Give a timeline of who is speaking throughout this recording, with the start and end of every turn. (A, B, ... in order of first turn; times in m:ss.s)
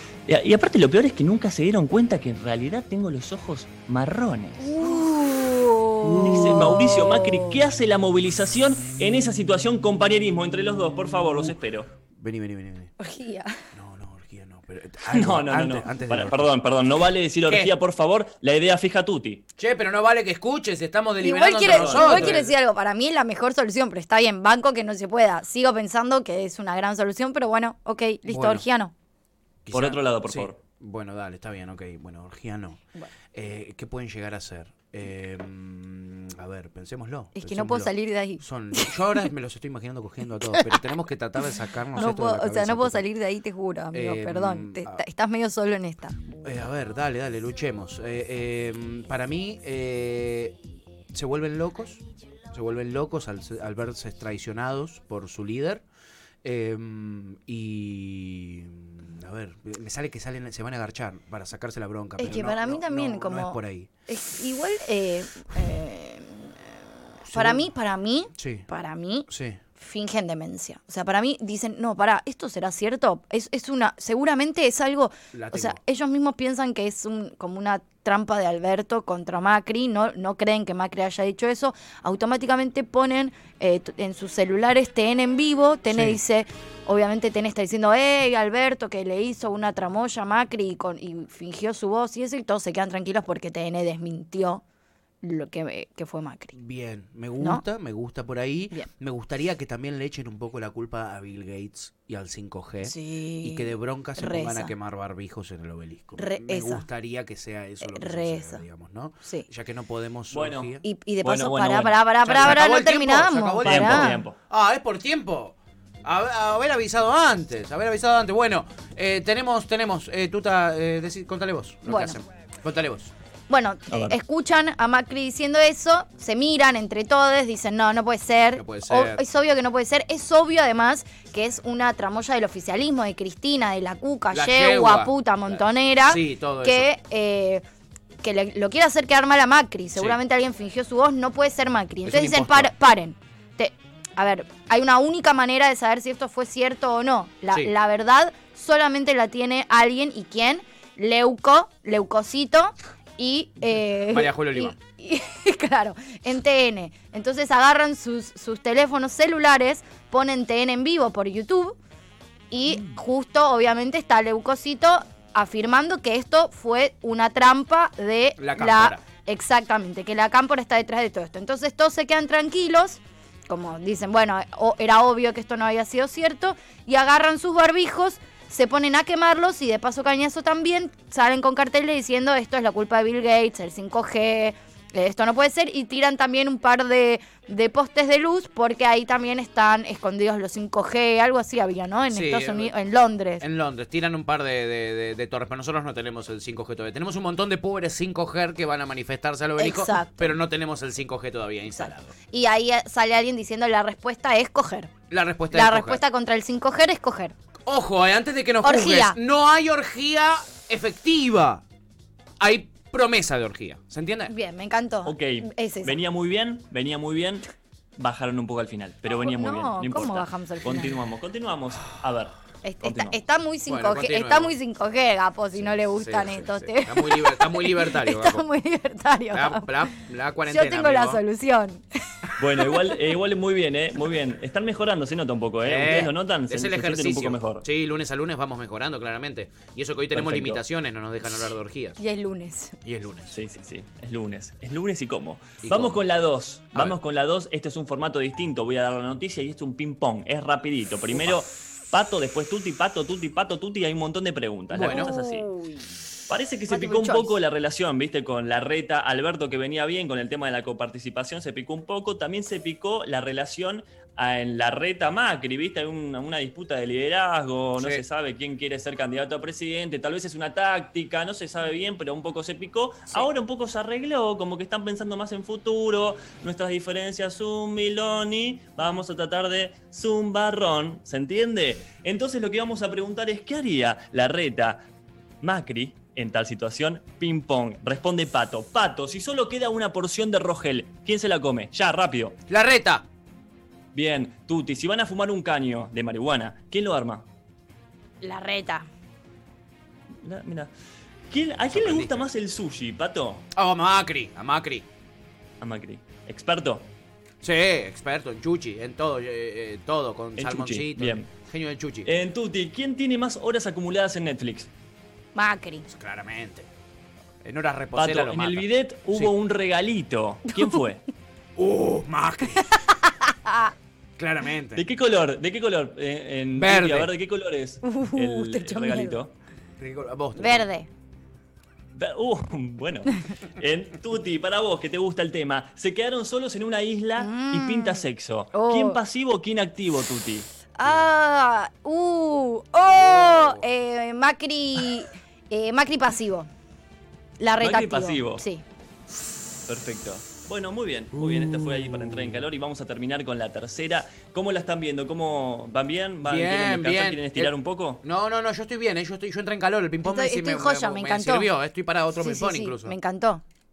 0:00.3-0:04.7 A
0:04.6-0:07.5 B
0:06.0-0:07.1 C
0:06.1-0:11.9 A
0:12.2-0:12.9 C
0:13.0-0:13.5 B
0:13.7-0:16.5 C
0:15.1-0:19.4 A
0:17.5-0:17.7 C
0:19.6-0:22.5 C
0:21.2-0:28.9 B
0:21.6-0:22.4 A
0:28.3-0:28.6 C
0:29.6-0:32.8 C
0:29.7-0:30.6 A
0:33.3-0:43.0 C
0:37.4-0:39.2 B
0:40.5-0:40.8 B
0:41.9-0:46.2 B
0:43.9-0:45.0 C
0:46.4-0:50.6 C
0:51.1-0:55.8 C
0:56.4-1:03.9 C
1:02.2-1:34.6 B
1:07.3-1:07.7 C
1:08.4-1:08.7 C
1:09.3-1:09.6 C
1:15.3-1:15.8 C
1:35.2-1:36.5 B
1:36.5-1:50.8 C
1:42.8-1:44.7 B
1:46.2-1:46.8 B
1:47.8-1:48.6 B
1:50.3-1:50.7 A
1:50.8-1:54.3 B
1:51.2-1:52.6 A
1:52.2-2:03.1 C
1:53.6-1:54.4 A
2:01.9-2:02.2 B
2:03.5-2:17.6 B
2:03.9-2:04.2 A
2:08.5-2:09.2 C
2:14.3-2:16.9 C
2:18.2-2:41.8 B
2:22.0-2:22.7 C
2:34.1-2:34.7 C
2:42.5-3:13.4 B
2:42.7-2:43.0 C
2:48.4-2:49.0 C
3:12.1-3:12.7 C
3:13.4-3:22.1 C
3:19.6-3:20.4 B
3:21.7-3:24.9 B
3:25.1-3:26.0 C
3:25.5-3:27.3 B
3:27.7-3:31.6 C
3:28.6-3:29.2 B
3:32.4-3:34.3 C
3:34.3-3:36.0 B
3:35.0-3:43.2 A
3:39.1-3:41.0 B
3:42.6-3:49.9 B
3:43.7-3:44.5 C
3:45.5-3:48.4 C
3:49.3-3:51.2 C
3:50.4-3:51.8 B
3:52.4-3:57.6 A
3:55.6-4:02.0 C
4:00.1-4:00.6 A
4:02.0-4:02.8 B
4:02.8-4:03.3 C
4:03.3-4:15.4 A
4:05.6-4:06.0 C
4:11.1-4:11.4 C
4:14.7-4:15.1 C
4:14.9-4:15.9 B
4:16.3-4:44.8 A
4:16.7-4:17.4 B
4:27.8-4:28.0 C
4:45.4-4:52.4 A
4:52.5-4:53.0 C
4:53.9-4:57.2 A
4:58.2-4:58.8 B
5:00.2-5:00.7 A
5:01.3-5:03.4 A
5:01.7-5:02.2 C
5:03.5-5:04.8 C
5:05.6-5:06.9 A
5:07.4-5:12.1 C
5:10.4-5:11.3 A
5:12.0-5:14.7 A
5:15.3-5:15.9 B
5:15.9-5:16.7 C
5:17.4-5:19.3 C
5:17.9-5:21.0 A
5:20.5-5:20.8 B
5:21.6-5:22.7 C
5:22.7-5:23.7 B
5:24.2-5:24.8 C
5:24.8-5:29.3 A
5:26.5-5:27.1 C
5:27.8-5:29.2 B
5:29.8-5:30.7 C
5:30.4-5:30.9 B
5:32.0-5:40.5 A
5:37.2-5:39.0 B
5:40.8-5:46.5 B
5:42.8-5:43.7 C
5:47.4-5:48.6 B
5:47.6-5:48.4 A
5:49.7-5:58.0 A
5:51.1-5:52.4 C
5:56.2-6:03.0 C
6:00.0-6:01.5 B
6:02.2-6:03.4 B